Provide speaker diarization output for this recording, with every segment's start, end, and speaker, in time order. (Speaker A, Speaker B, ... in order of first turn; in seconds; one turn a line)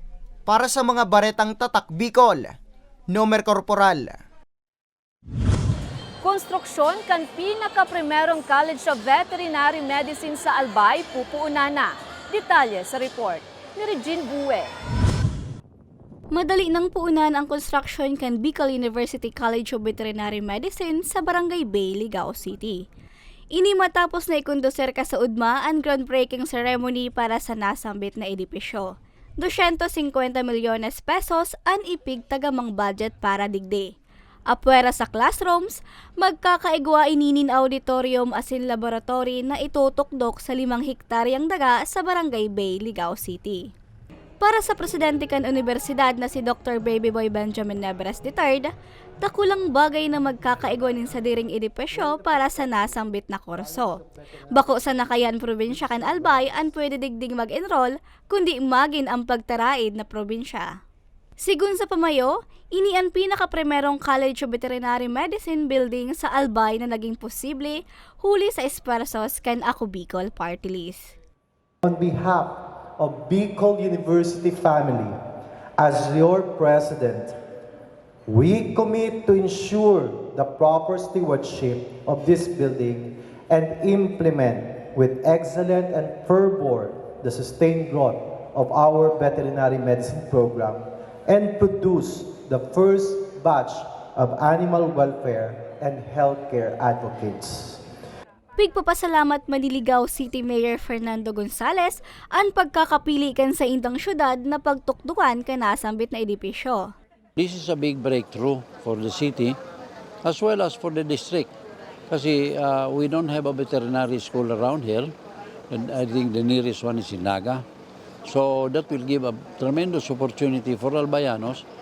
Speaker A: 0.5-2.5
Speaker A: 3.1-4.2
Speaker B: 6.2-14.7
Speaker C: 16.3-22.8
Speaker C: 23.5-33.9
Speaker C: 34.5-43.7
Speaker C: 44.4-60.8
Speaker C: 61.4-71.1
Speaker D: 71.8-75.2
Speaker D: 75.8-77.4
Speaker D: 78.3-97.8
Speaker C: 98.6-106.9
Speaker E: 107.3-109.6
Speaker E: 110.2-111.5
Speaker E: 112.1-115.1
Speaker E: 115.7-117.6
Speaker E: 118.2-121.6